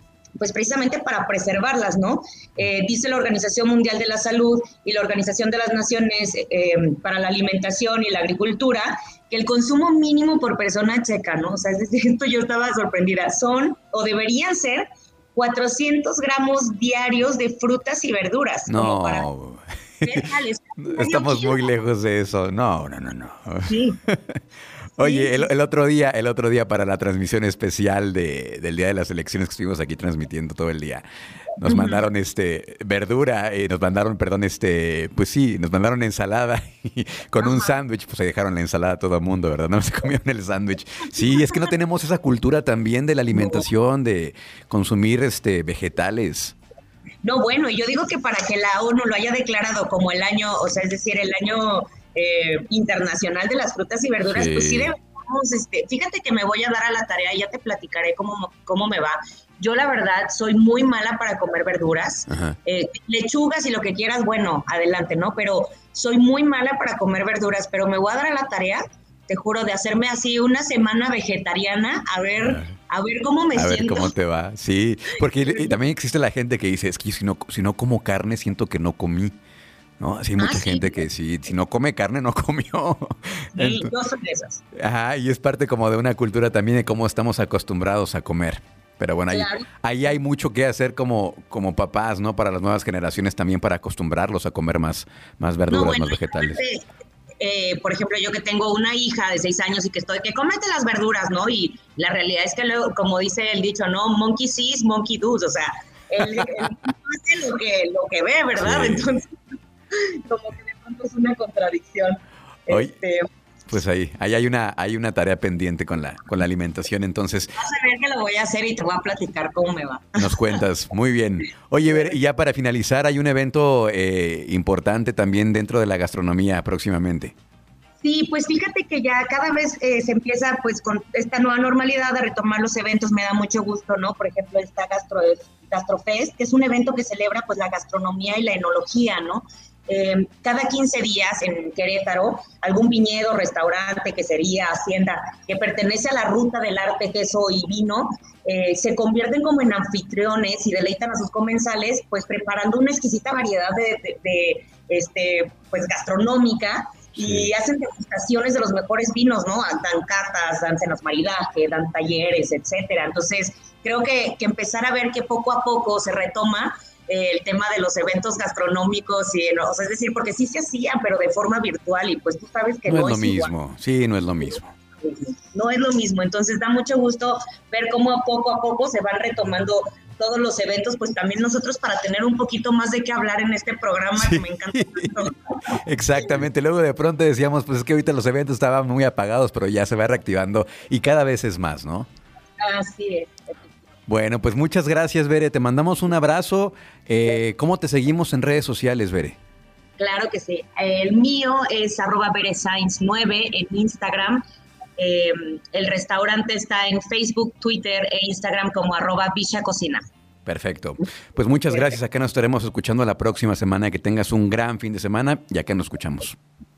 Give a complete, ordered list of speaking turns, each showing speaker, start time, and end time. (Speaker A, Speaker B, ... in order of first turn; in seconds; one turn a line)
Speaker A: 0.4-19.3
Speaker B: 18.7-20.2
Speaker A: 20.0-21.7
Speaker B: 20.8-24.4
Speaker A: 23.7-24.0
Speaker B: 25.0-31.1
Speaker A: 25.0-25.5
Speaker B: 31.6-46.5
Speaker A: 31.7-32.0
Speaker A: 37.4-37.8
Speaker A: 43.4-43.6
Speaker A: 47.2-74.1
Speaker B: 54.3-54.9
Speaker B: 62.3-62.6
Speaker B: 72.4-72.7
Speaker B: 73.5-79.3
Speaker A: 75.5-75.8
Speaker B: 80.0-83.9
Speaker A: 80.4-81.0
Speaker A: 83.5-84.6
Speaker B: 84.8-96.6
Speaker A: 89.3-89.7
Speaker A: 95.7-96.8
Speaker A: 97.4-109.4
Speaker B: 108.6-109.1
Speaker A: 109.9-113.3
Speaker B: 112.7-112.9
Speaker B: 113.7-117.5
Speaker A: 117.6-120.5
Speaker B: 120.2-127.3
Speaker A: 121.9-122.2
Speaker A: 128.0-173.5
Speaker B: 157.2-157.5
Speaker B: 172.9-174.7
Speaker A: 175.0-185.7
Speaker B: 184.2-185.2
Speaker B: 185.8-192.1
Speaker A: 192.6-193.8
Speaker B: 194.1-199.4
Speaker A: 200.0-204.4
Speaker A: 205.0-210.0
Speaker B: 210.5-216.4
Speaker A: 211.7-212.0